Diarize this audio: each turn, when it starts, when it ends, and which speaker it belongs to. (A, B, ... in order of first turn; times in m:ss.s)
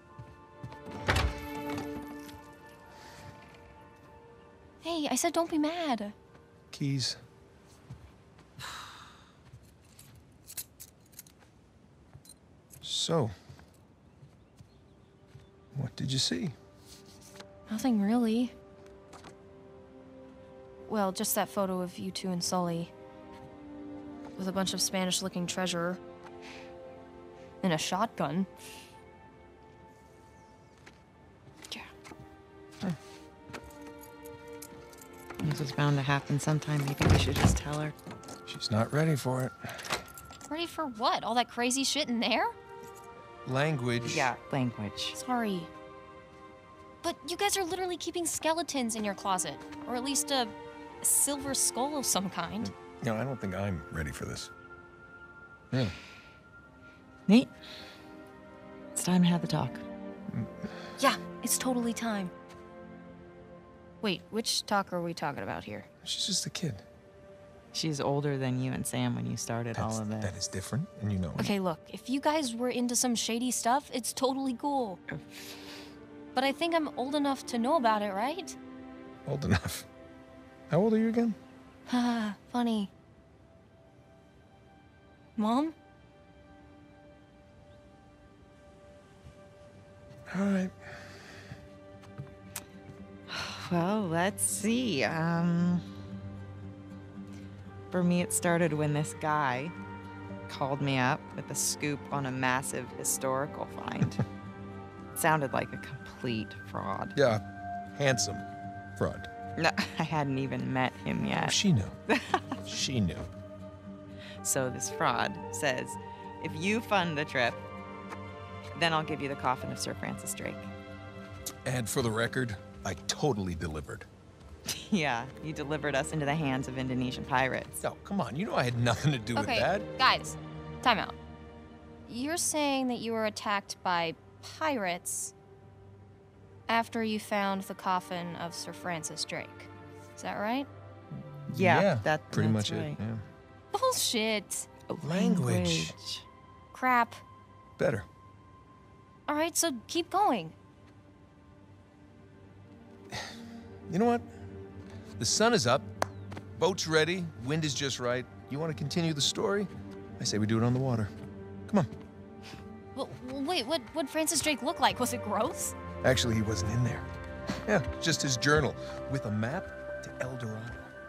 0:04.8-0:06.2 A
0:06.7-0:07.2 B
0:12.8-0:13.4 B
0:15.7-0:16.6 B
0:17.7-0:18.5 A
0:20.9-0:22.9 A
0:24.4-0:26.0 A
0:27.6-0:28.5 A
0:35.4-0:38.0 C
0:38.5-0:39.9 B
0:40.5-0:42.5 A
0:43.4-0:44.3 B
0:44.1-0:45.2 C
0:45.2-0:45.7 A
0:47.0-0:52.7 A
0:52.6-0:54.5 B
0:57.3-0:57.5 C
0:59.0-0:59.8 C
1:00.3-1:00.8 B
1:01.0-1:02.3 A
1:04.0-1:05.9 A
1:06.0-1:06.8 B
1:07.7-1:10.4 C
1:09.7-1:11.5 B
1:11.4-1:15.0 A
1:15.1-1:15.6 C
1:16.3-1:18.6 A
1:19.3-1:19.9 B
1:20.7-1:21.4 B
1:21.9-1:22.9 A
1:25.4-1:25.8 A
1:30.3-1:31.0 B
1:33.3-1:35.9 C
1:37.9-1:39.8 C
1:40.5-1:44.2 C
1:45.2-1:47.2 C
1:47.2-1:47.4 B
1:47.9-1:48.5 B
1:49.0-1:49.3 B
1:49.6-1:52.6 C
1:51.4-1:52.0 B
1:52.7-1:53.3 B
1:54.4-1:57.7 C
1:58.7-2:00.7 C
2:01.6-2:04.1 B
2:04.7-2:07.8 C
2:07.8-2:09.9 B
2:09.4-2:11.2 A
2:12.1-2:15.3 A
2:16.7-2:20.7 A
2:21.5-2:23.2 B
2:21.6-2:23.0 C
2:23.7-2:24.7 A
2:24.9-2:26.3 C
2:25.0-2:26.0 B
2:26.7-2:27.2 A
2:27.8-2:28.1 B
2:29.3-2:30.6 A
2:33.1-2:33.4 B
2:33.9-2:34.3 B
2:35.2-2:35.9 B
2:36.5-2:41.1 B
2:43.0-2:45.8 A
2:46.0-2:47.1 B
2:47.7-2:50.9 B